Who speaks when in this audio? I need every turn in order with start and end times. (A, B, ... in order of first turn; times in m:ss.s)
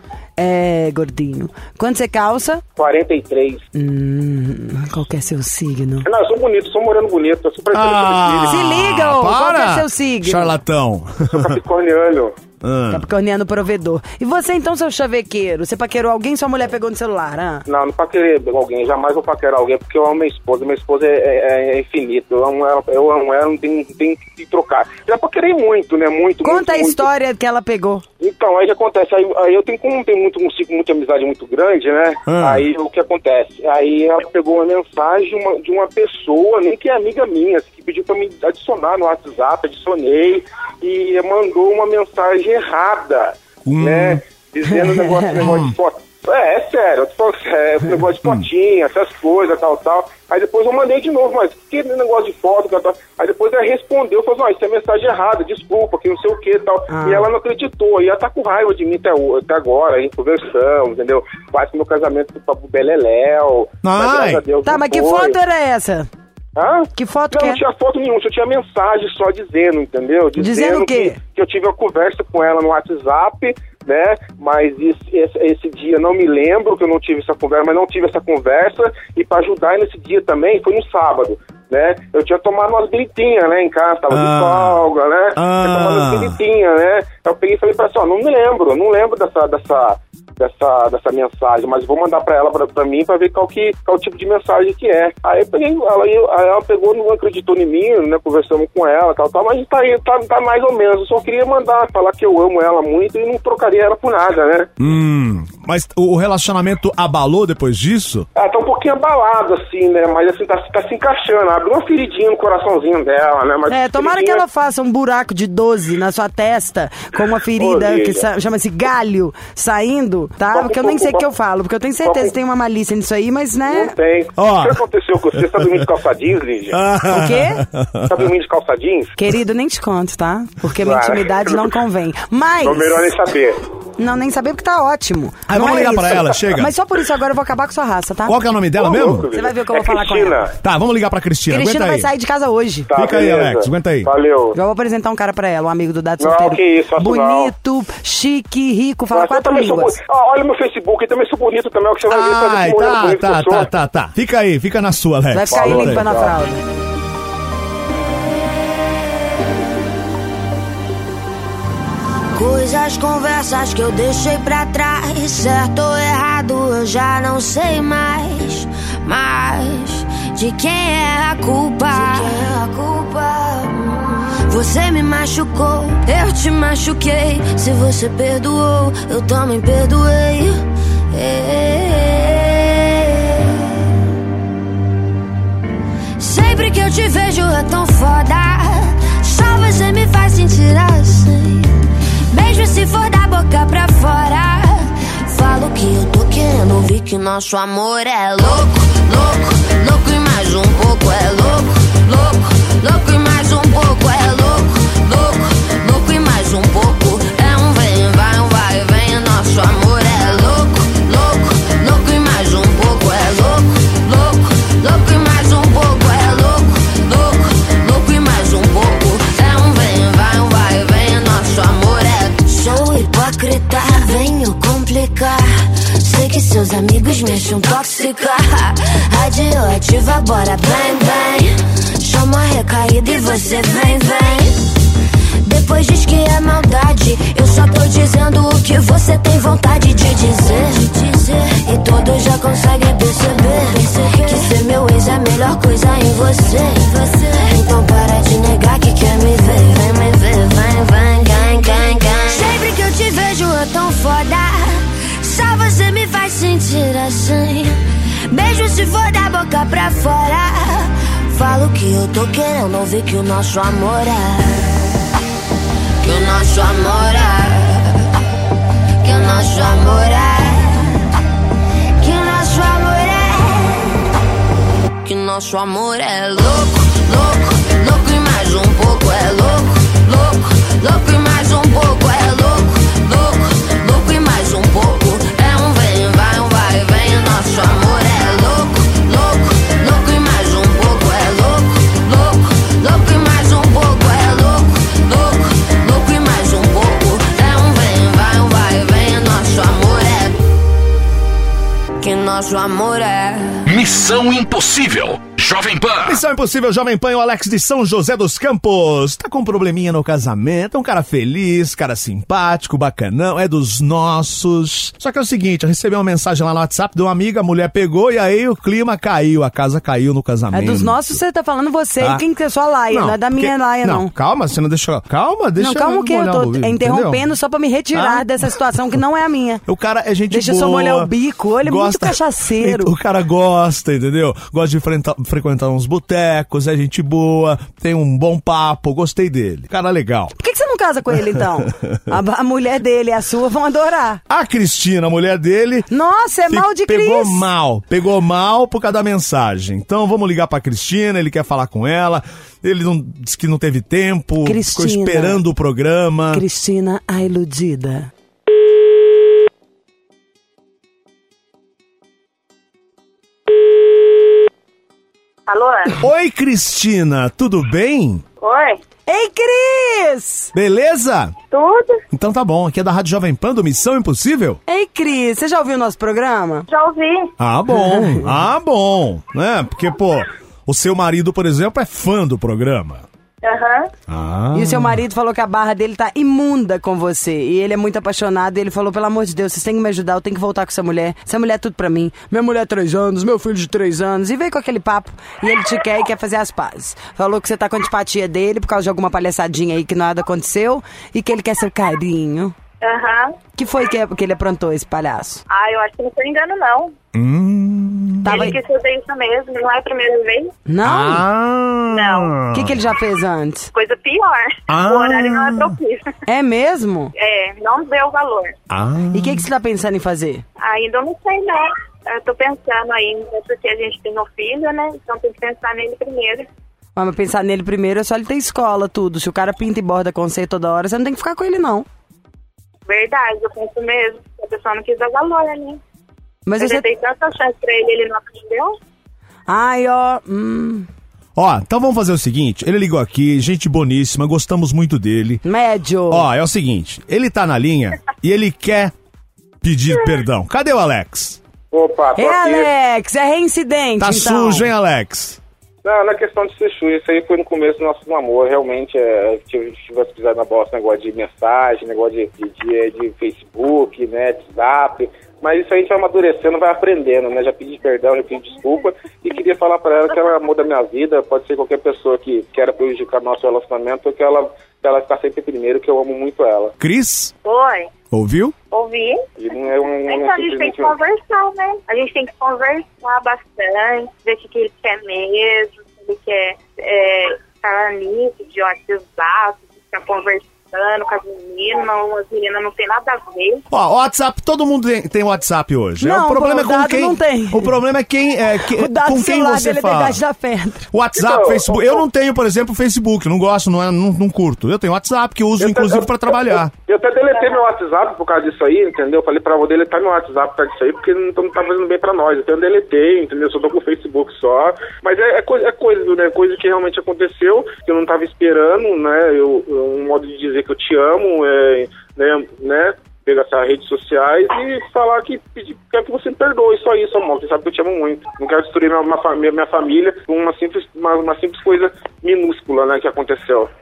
0:00.4-0:02.6 A
0:02.8-0:03.6 B
0:03.8-0:06.1 A
0:06.0-0:08.6 B
0:07.7-0:11.6 C
0:08.5-0:10.5 A
0:11.3-0:12.4 B
0:12.6-0:13.0 C
0:12.9-0:17.6 A
0:17.7-0:27.1 B
0:26.4-0:28.0 A
0:28.2-1:05.4 B
0:32.3-0:32.6 C
0:43.6-0:44.2 C
0:45.0-0:45.4 A
0:45.4-0:45.7 C
0:56.9-0:57.3 A
1:03.8-1:04.4 C
1:04.6-1:06.1 A
1:06.6-1:44.7 B
1:07.0-1:07.6 A
1:10.4-1:11.2 A
1:24.1-1:26.4 C
1:44.8-1:48.3 C
1:48.4-1:54.4 B
1:53.7-2:03.9 A
1:57.6-1:58.3 B
2:00.5-2:01.3 B
2:02.0-2:02.3 B
2:03.7-2:06.8 B
2:04.4-2:04.8 C
2:05.3-2:05.9 C
2:06.7-2:08.2 C
2:07.1-2:07.6 A
2:08.1-2:09.1 B
2:09.2-2:13.1 A
2:10.8-2:11.8 B
2:12.6-2:13.6 B
2:14.0-2:18.4 A
2:15.5-2:16.7 C
2:18.3-2:19.3 C
2:18.8-2:20.6 B
2:19.3-2:20.4 A
2:20.6-2:22.1 C
2:21.5-2:22.9 A
2:22.9-2:24.6 B
2:22.9-2:24.1 C
2:24.6-2:30.0 A
2:26.2-2:27.5 B
2:29.1-2:33.7 B
2:32.1-2:36.1 C
2:35.3-2:36.6 A
2:35.5-2:36.4 B
2:42.3-3:03.2 D
3:06.2-3:11.8 D
3:12.3-3:54.7 D
3:55.4-4:24.7 D
4:26.0-4:28.0 D
4:29.0-4:31.0 D
4:32.0-4:34.0 D
4:35.0-5:00.4 D
5:02.0-5:03.6 D
5:03.7-5:06.2 E
5:06.0-5:21.1 C
5:20.5-5:24.1 A
5:22.9-5:27.3 C
5:25.6-5:29.6 A
5:27.9-5:28.3 C
5:29.7-5:40.4 C
5:30.3-5:32.9 A
5:40.4-5:44.2 A
5:41.4-5:41.8 C
5:44.3-5:45.9 C
5:45.9-5:47.5 A
5:46.5-5:56.4 C
5:54.4-5:55.4 A
5:56.3-5:58.1 A
6:05.5-6:06.0 F
6:06.0-6:08.2 C
6:08.4-6:08.8 F
6:09.1-6:10.5 A
6:10.5-6:11.3 C
6:11.5-6:12.0 F
6:12.1-6:14.6 C
6:14.7-6:16.6 A
6:16.7-6:17.3 F
6:17.4-6:23.0 C
6:17.7-6:18.3 A
6:23.4-6:23.9 F
6:24.1-6:25.0 C
6:24.5-6:42.6 A
6:42.8-6:43.4 F
6:43.6-6:45.4 A
6:45.5-6:46.9 F
6:47.1-6:48.5 C
6:48.2-6:48.6 A
6:48.2-6:50.5 F
6:50.7-6:51.3 A
6:50.8-6:52.9 C
6:51.9-6:52.3 F
6:52.5-6:53.7 A
6:53.7-6:56.1 F
6:54.7-6:55.7 C
6:56.3-6:57.1 A
6:57.2-6:58.5 F
6:58.7-6:59.4 C
6:59.1-7:00.4 A
7:00.6-7:06.5 F
7:07.0-7:11.9 A
7:12.9-7:15.8 F
7:16.4-7:16.9 A
7:16.6-7:18.7 F
7:19.5-7:20.9 A
7:21.4-7:25.4 C
7:25.4-7:26.2 A
7:26.1-7:28.9 C
7:29.6-7:31.4 C
7:31.7-7:32.7 B
7:32.2-7:34.7 A
7:34.0-7:35.4 C
7:35.8-7:56.7 B
7:56.8-7:57.3 C
7:57.4-7:57.9 F
7:58.1-7:58.5 C
7:58.7-7:59.2 F
7:59.4-8:01.0 B
8:00.1-8:13.6 F
8:13.7-8:20.2 C
8:16.0-8:17.8 A
8:18.7-8:20.9 A
8:20.9-8:26.7 C
8:21.2-8:22.0 B
8:25.6-8:53.7 B